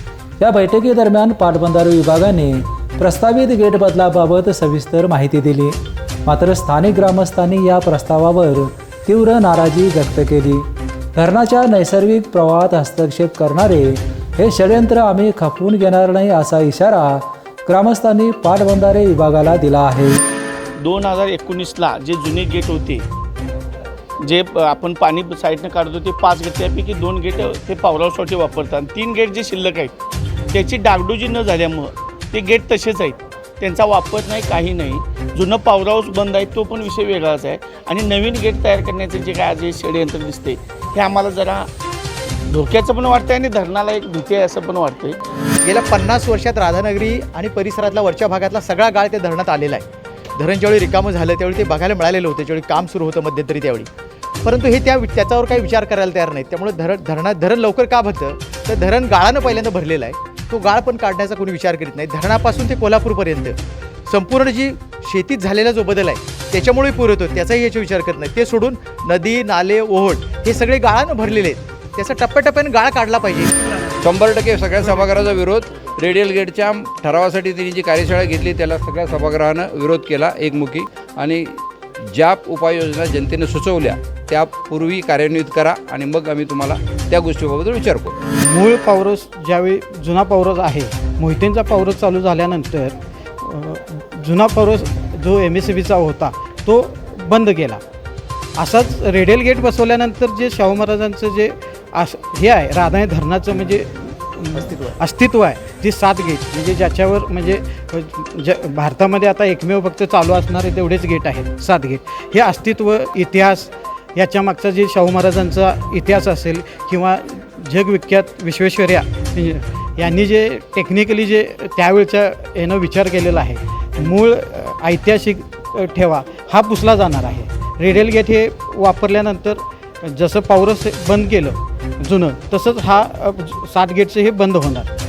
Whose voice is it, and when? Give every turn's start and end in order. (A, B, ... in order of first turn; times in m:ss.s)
0:00.4-0:20.2 A
0:20.8-0:23.1 B
0:24.2-0:29.9 B
0:30.5-0:41.7 B
0:42.5-0:45.2 B
0:45.6-0:49.8 C
0:50.4-0:53.9 C
0:54.4-1:13.5 C
1:14.0-1:28.1 D
1:28.4-1:37.8 E
1:38.6-2:14.9 E
1:44.7-1:45.0 C